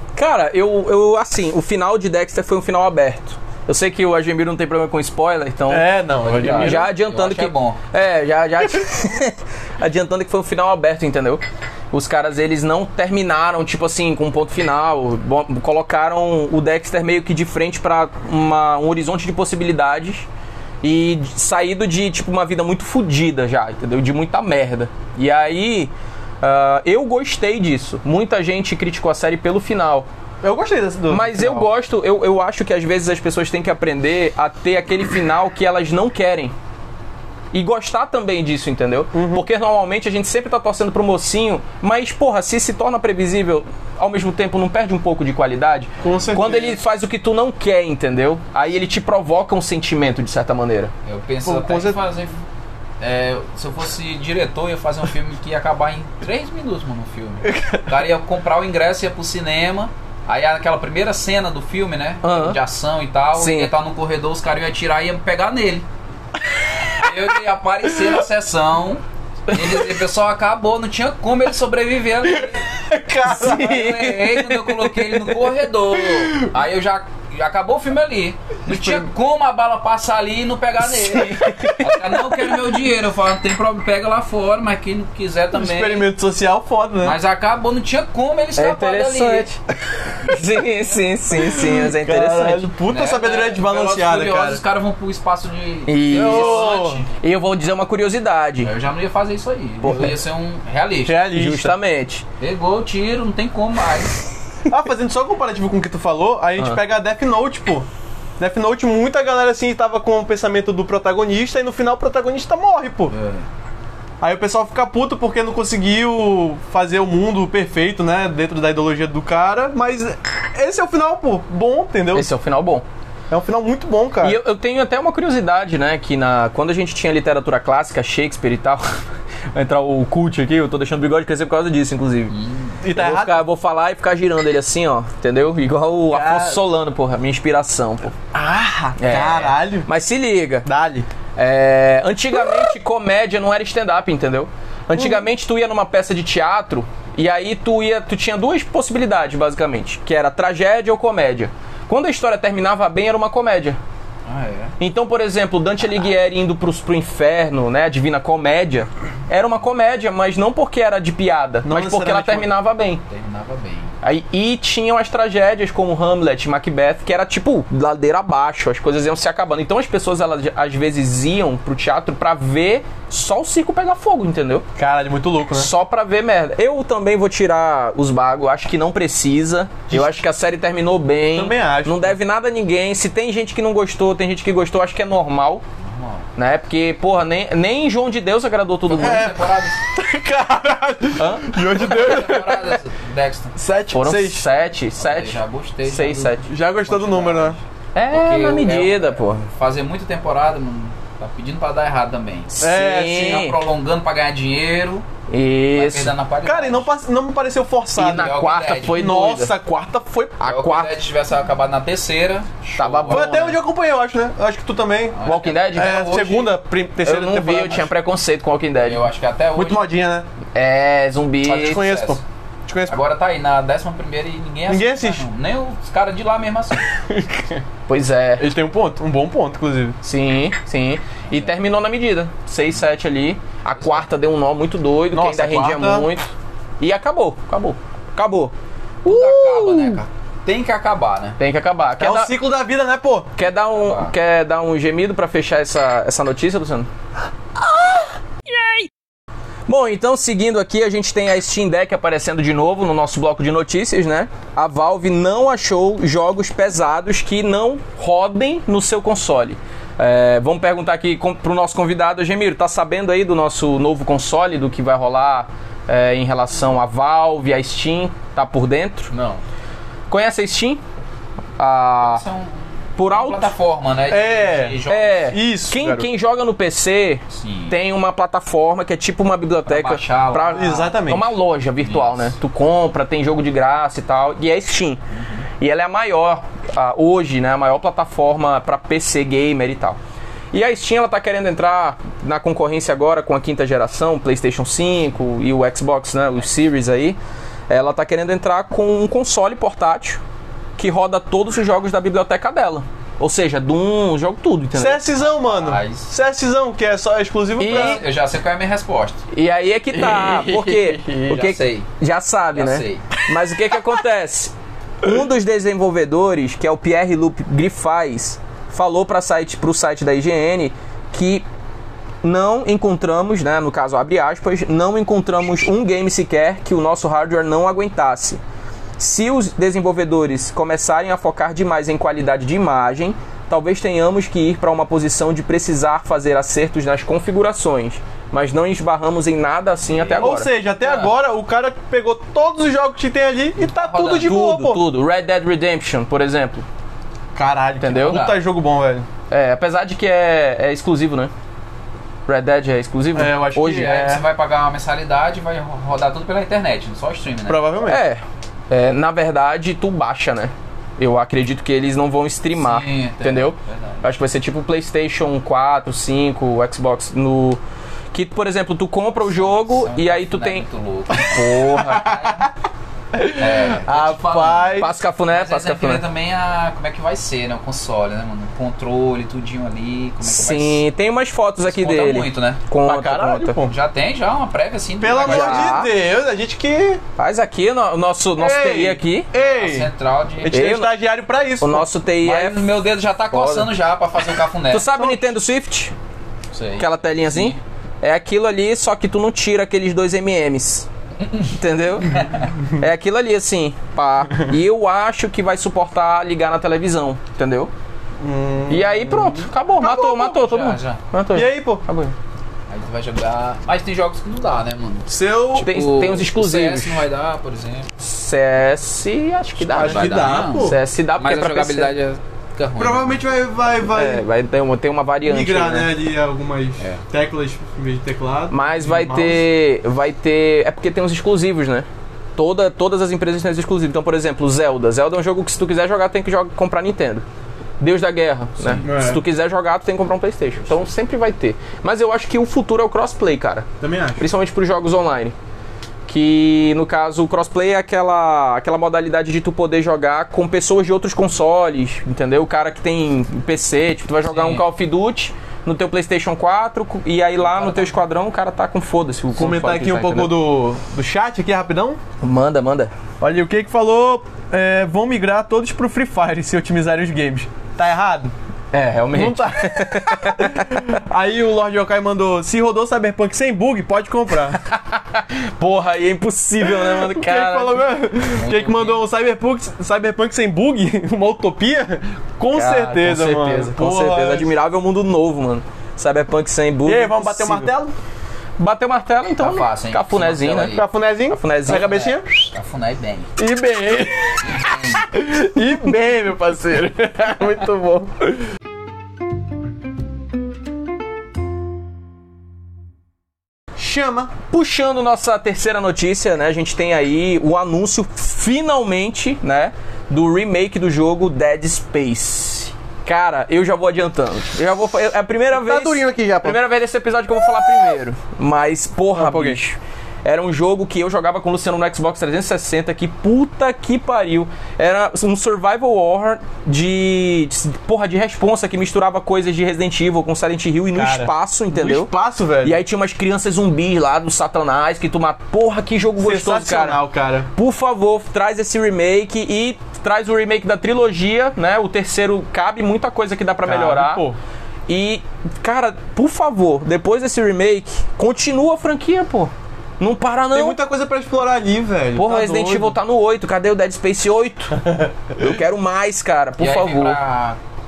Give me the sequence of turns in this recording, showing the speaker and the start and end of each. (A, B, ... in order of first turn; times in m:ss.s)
0:00.2-0:20.3 A
0:05.7-0:06.9 B
0:06.2-0:07.8 C
0:20.8-0:30.1 A
0:30.4-0:31.7 B
0:31.1-0:36.5 A
0:37.5-0:50.9 A
0:39.1-0:39.5 B
0:46.0-0:46.8 B
0:51.1-0:52.4 C
0:51.4-0:52.0 B
0:53.0-1:05.9 C
0:57.4-0:57.9 B
1:02.2-1:02.6 A
1:03.4-1:03.7 A
1:07.0-1:12.7 C
1:12.7-1:14.1 B
1:13.3-1:14.4 A
1:13.3-1:26.1 C
1:15.9-1:16.5 B
1:18.7-1:19.0 B
1:21.1-1:21.8 A
1:25.5-1:27.2 B
1:27.0-1:29.5 C
1:28.6-1:29.6 A
1:30.2-1:32.7 A
1:31.4-1:34.6 B
1:32.9-1:37.1 C
1:35.9-1:38.7 A
1:36.1-1:37.0 B
1:38.6-1:41.2 C
1:39.8-1:40.1 A
1:41.1-1:41.8 B
1:41.3-1:42.2 A
1:42.4-1:44.2 C
1:44.7-1:47.9 B
1:48.4-1:53.1 B
1:53.1-1:53.5 C
1:54.2-2:02.3 B
2:02.1-2:02.8 A
2:03.3-2:04.4 B
2:04.2-2:09.0 A
2:09.5-2:12.4 A
2:12.3-2:12.8 C
2:12.8-2:13.4 B
2:12.9-2:18.2 A
2:16.1-2:16.6 B
2:18.3-2:19.9 B
2:19.0-2:20.7 A
2:20.6-2:21.1 B
2:21.4-2:33.8 A
2:25.0-2:25.2 B
2:34.3-2:34.8 C
2:34.8-2:43.0 A
2:41.6-2:42.5 B
2:43.1-2:43.9 C
2:44.0-2:54.6 A
2:54.8-2:55.7 B
2:55.6-3:05.6 A
2:59.9-3:00.2 B
3:01.3-3:02.2 B
3:05.8-3:06.3 C
3:06.4-3:09.3 A
3:08.9-3:09.8 C
3:09.0-3:12.8 B
3:11.2-3:11.6 A
3:11.8-3:13.6 C
3:13.6-3:14.4 B
3:13.9-3:16.4 A
3:15.0-3:25.1 C
3:16.5-3:17.6 B
3:18.0-3:19.5 A
3:22.6-3:23.6 A
3:22.6-3:23.5 B
3:25.3-3:26.1 A
3:25.7-3:26.9 C
3:26.4-3:28.3 B
3:28.0-3:29.6 A
3:28.0-3:29.0 C
3:28.9-3:30.4 B
3:30.4-3:31.0 A
3:30.4-3:33.4 C
3:32.8-3:33.6 A
3:33.1-3:37.9 B
3:35.1-3:36.5 C
3:35.2-3:36.4 A
3:37.0-3:39.1 A
3:38.8-3:39.9 C
3:39.6-3:40.3 B
3:40.5-3:41.9 A
3:41.4-3:42.2 C
3:41.6-3:43.0 B
3:42.9-3:46.9 C
3:44.7-3:45.3 B
3:47.1-3:47.6 B
3:47.9-3:48.5 A
3:48.4-3:50.0 B
3:50.0-4:00.0 A
3:53.8-3:54.0 C
3:55.1-3:56.1 B
3:59.0-4:01.4 C
4:01.4-4:02.3 A
4:02.0-4:03.4 B
4:03.4-4:06.9 A
4:03.6-4:04.1 C
4:07.6-4:08.9 A
4:09.7-4:29.1 A
4:29.1-4:29.4 C
4:30.1-4:30.8 A
4:31.6-4:32.2 A
4:32.0-4:35.3 C
4:33.0-4:33.5 A
4:34.1-4:36.1 B
4:34.9-4:45.0 A
4:37.3-4:37.8 C
4:39.7-4:40.9 C
4:40.5-4:41.3 B
4:41.8-4:42.3 C
4:45.1-4:45.5 C
4:45.6-4:50.0 A
4:50.5-4:57.2 A
4:57.7-5:00.2 A
5:00.8-5:05.0 A
5:04.7-5:08.0 B
5:05.3-5:06.1 C
5:07.6-5:08.0 A
5:07.6-5:09.2 C
5:09.3-5:21.4 A
5:10.1-5:11.9 C
5:12.5-5:13.1 C
5:22.2-5:28.4 A
5:29.0-5:40.5 A
5:40.2-5:44.8 B
5:40.8-5:41.1 C
5:43.6-5:44.4 C
5:44.2-5:46.6 A
5:47.4-5:49.1 B
5:47.8-5:48.2 A
5:48.0-5:48.4 C
5:49.3-5:51.3 A
5:52.3-5:54.0 A
5:53.1-5:54.2 B
5:53.6-5:57.7 C
5:57.5-5:58.0 B
5:57.9-6:07.6 A
6:02.6-6:04.1 C
6:08.1-6:12.2 A
6:09.3-6:12.5 C
6:13.1-6:14.9 B
6:13.3-6:20.8 C
6:14.8-6:16.0 A
6:20.2-6:23.6 A
6:21.6-6:22.6 C
6:22.8-6:23.7 B
6:23.6-6:25.8 C
6:25.0-6:27.0 B
6:25.2-6:25.9 A
6:27.2-6:29.3 A
6:28.4-6:29.9 B
6:29.3-6:30.6 C
6:30.4-6:31.9 B
6:30.5-6:30.9 A
6:31.6-6:32.7 A
6:32.2-6:34.9 C
6:33.3-6:33.7 A
6:34.7-6:35.9 A
6:35.0-6:35.3 B
6:36.5-6:37.6 C
6:36.8-6:40.9 A
6:41.2-6:41.5 C
6:41.5-6:47.7 A
6:42.1-6:42.5 C
6:48.2-6:50.4 B
6:48.7-6:52.1 A
6:50.2-6:51.0 C
6:51.3-6:51.9 B
6:52.7-6:57.9 C
6:55.1-6:55.7 B
6:55.6-6:57.1 A
6:58.0-7:01.9 A
6:59.6-7:00.8 B
6:59.8-7:03.2 C
7:02.8-7:04.2 B
7:04.0-7:05.9 A
7:05.2-7:09.4 B
7:08.5-7:11.9 A
7:12.4-7:17.2 A
7:17.8-7:23.7 A
7:18.6-7:18.8 C
7:18.8-7:19.2 B
7:23.8-7:24.3 B
7:24.2-7:25.3 A
7:26.1-7:40.4 A
7:34.2-7:34.6 C
7:37.4-7:38.0 C
7:39.4-7:42.0 B
7:42.2-7:42.9 A
7:43.2-7:48.3 B
7:48.7-7:50.8 A
7:49.1-7:54.6 B
7:54.7-7:57.9 A
7:56.6-8:04.5 B
7:58.4-7:59.0 C
8:02.5-8:07.7 A
8:06.8-8:08.0 B
8:08.6-8:11.9 A
8:09.4-8:10.8 C
8:10.7-8:12.5 B
8:11.7-8:13.3 C
8:13.4-8:18.4 B
8:14.4-8:15.1 C
8:23.8-8:24.4 B
8:24.5-8:52.1 A
8:35.5-8:36.6 B
8:39.1-8:39.6 B
8:51.0-8:52.8 B
8:52.6-8:57.0 A
8:56.2-8:57.5 B
8:57.6-9:04.3 A
9:03.6-9:04.4 B
9:04.9-9:10.8 A
9:10.5-9:13.0 B
9:12.2-9:14.8 A
9:14.8-9:15.1 B
9:15.4-9:17.2 A
9:16.6-9:17.6 C